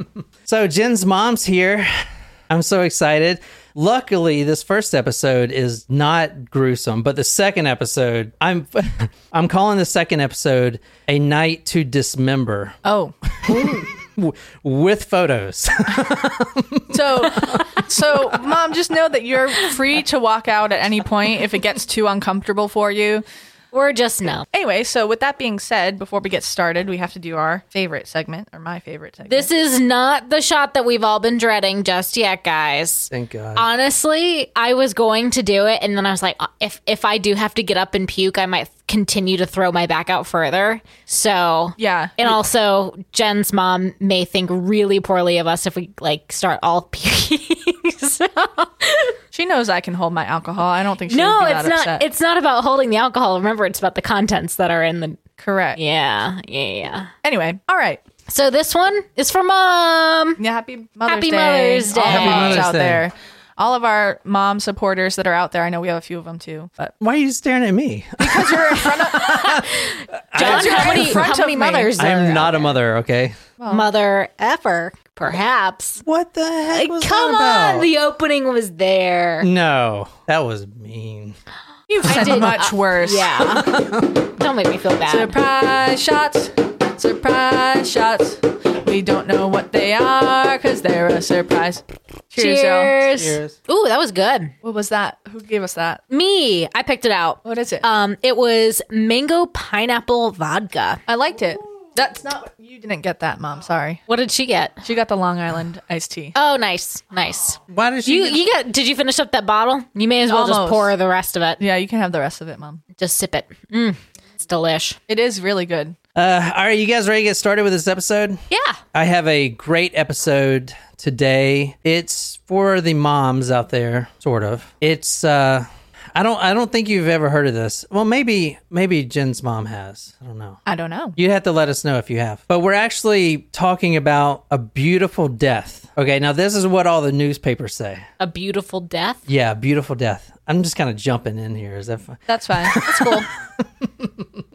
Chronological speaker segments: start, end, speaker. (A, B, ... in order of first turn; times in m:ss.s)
0:00.4-0:12.8 A
0:12.8-0:13.1 B
0:13.4-0:18.4 A
0:16.9-0:23.2 B
0:23.7-0:24.4 C
0:24.5-0:29.5 B
0:29.3-0:49.2 C
0:33.1-0:33.6 A
0:41.8-0:42.3 B
0:49.3-0:52.0 B
0:51.1-0:55.2 C
0:55.4-0:55.8 B
0:55.8-0:57.1 C
0:57.2-0:58.0 B
0:58.3-1:00.4 C
1:00.4-1:06.9 B
1:01.1-1:02.7 C
1:02.1-1:03.0 A
1:07.0-1:11.3 A
1:08.2-1:09.6 B
1:09.2-1:12.7 C
1:10.3-1:11.9 B
1:12.0-1:13.4 A
1:13.6-1:13.9 B
1:13.7-1:16.0 C
1:16.0-1:17.9 A
1:16.7-1:19.5 C
1:19.4-1:21.4 A
1:21.9-1:23.7 B
1:22.0-1:25.3 C
1:23.5-1:24.1 A
1:25.1-1:33.0 B
1:32.4-1:34.5 C
1:33.1-1:33.6 A
1:34.6-1:36.0 B
1:36.1-1:41.0 C
1:37.4-1:37.8 B
1:41.1-1:44.0 B
1:44.1-1:44.8 C
1:44.8-1:46.3 B
1:46.3-1:51.6 C
1:47.7-1:48.4 A
1:50.3-1:50.9 B
1:51.6-1:52.8 B
1:53.0-1:55.0 C
1:55.1-1:56.0 B
1:56.1-1:58.4 A
1:58.5-1:58.8 C
1:58.9-2:10.6 A
2:10.6-2:11.2 B
2:11.2-2:18.0 A
2:18.2-2:19.2 C
2:19.3-2:24.3 A
2:22.3-2:23.3 B